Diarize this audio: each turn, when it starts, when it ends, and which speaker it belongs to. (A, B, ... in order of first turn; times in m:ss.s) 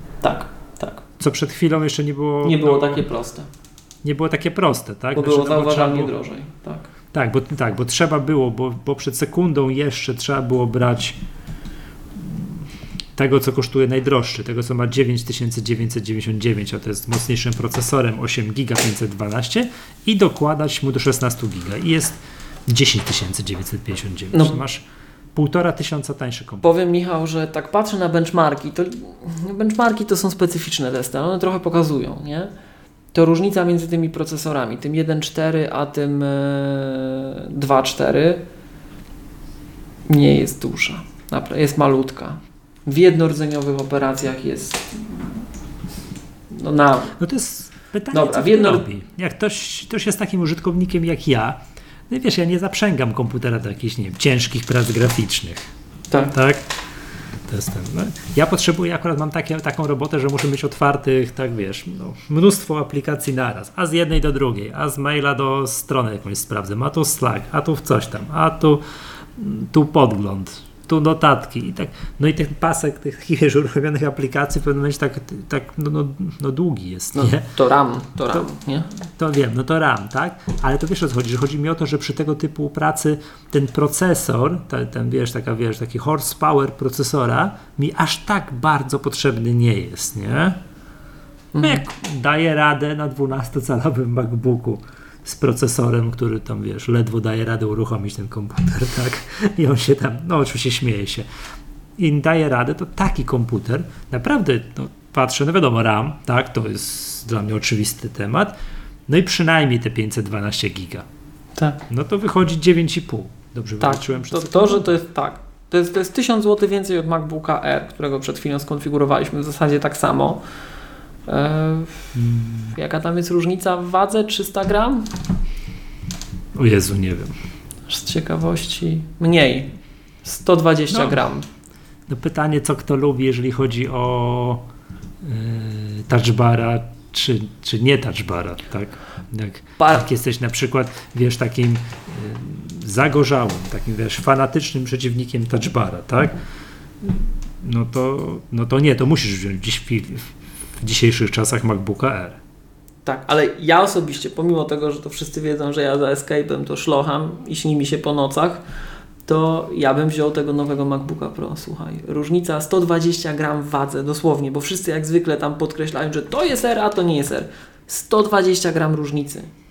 0:00.2-0:01.0 A
0:01.2-0:03.0 B
0:02.4-0:03.5 A
0:04.0-0:06.1 B
0:05.1-0:06.9 A
0:07.1-0:11.2 B
0:12.2-0:12.5 B
0:13.2-0:26.7 B
0:26.6-0:32.5 A
0:33.1-0:38.4 A
0:40.1-0:45.4 A
0:46.5-0:47.2 A
0:47.2-0:55.7 B
0:48.1-0:48.8 A
0:56.3-0:56.7 B
0:57.5-1:08.8 B
1:09.3-1:17.5 B
1:17.1-1:18.9 A
1:19.1-1:30.6 B
1:31.5-1:31.8 A
1:31.6-1:41.3 B
1:42.0-1:48.5 B
1:49.1-1:51.0 B
1:51.9-1:54.9 B
1:53.8-2:00.4 A
2:01.3-2:02.1 A
2:02.1-2:02.7 B
2:02.7-2:05.1 A
2:06.5-2:07.3 B
2:07.9-2:09.7 A
2:10.2-2:11.4 A
2:10.9-2:11.2 B
2:12.1-2:14.6 B
2:15.2-2:26.4 B
2:27.0-2:30.3 B
2:30.8-2:32.4 B
2:33.0-2:38.6 A
2:39.2-2:49.5 A